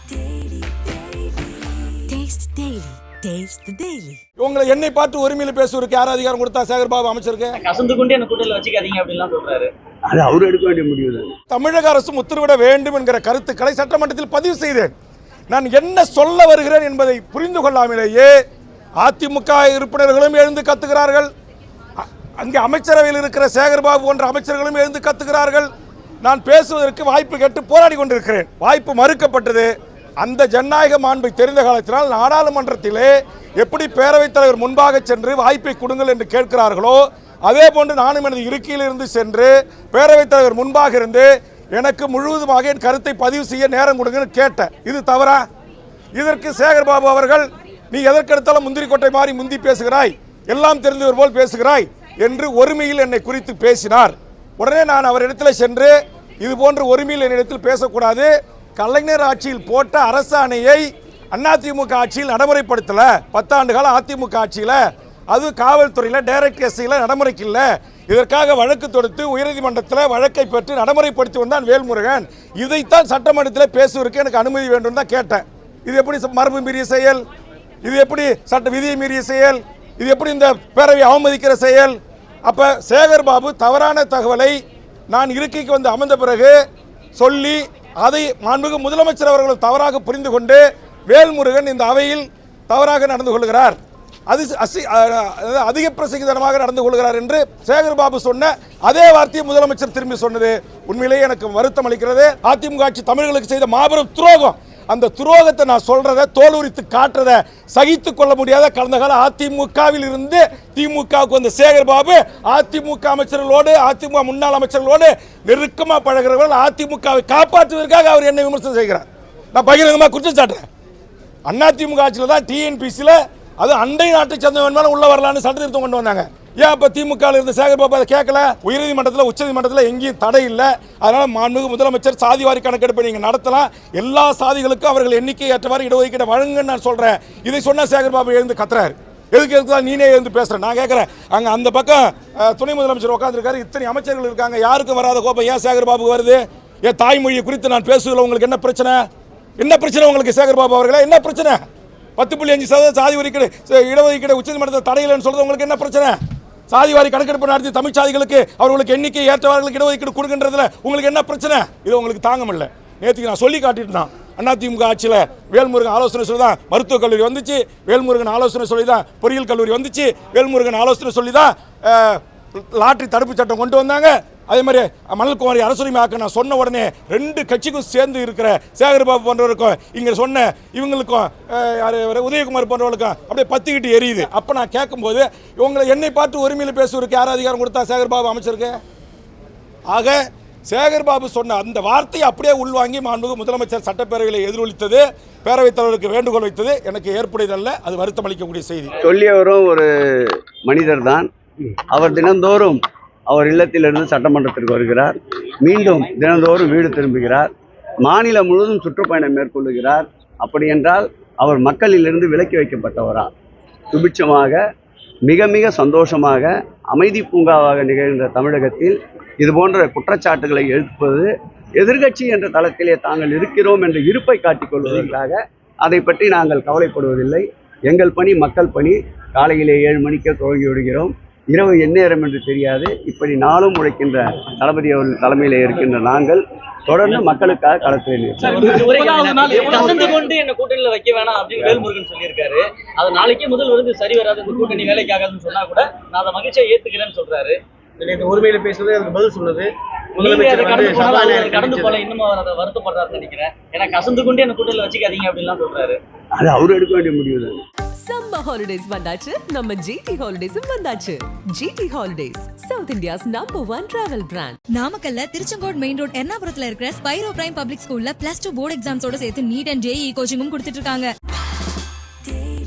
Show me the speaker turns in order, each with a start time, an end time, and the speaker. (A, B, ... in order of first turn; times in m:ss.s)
0:02.1-0:04.2 A
0:04.4-0:07.6 B
0:07.6-0:09.7 C
0:10.1-0:11.3 D
0:11.5-0:14.9 B
0:15.5-0:18.3 B
0:19.0-0:21.3 B
0:22.0-0:25.7 B
0:26.2-0:45.4 B
0:46.2-1:17.2 B
1:17.8-1:24.6 B
1:25.1-1:26.6 B
1:27.2-1:33.8 B
1:34.3-2:00.6 B
2:01.5-2:29.0 B
2:29.6-2:31.6 B
2:32.2-2:36.2 B
2:36.7-3:08.8 B
3:09.9-3:19.0 B
3:19.0-3:21.3 D
3:21.9-3:27.5 D
3:28.0-3:33.3 D
3:33.9-3:34.6 D
3:35.2-3:58.9 D
3:58.4-4:07.6 C
3:58.6-4:00.2 E
4:08.0-4:12.0 E
4:10.2-4:16.0 C
4:16.4-4:17.6 D
4:18.0-4:24.6 A
4:24.8-4:31.1 F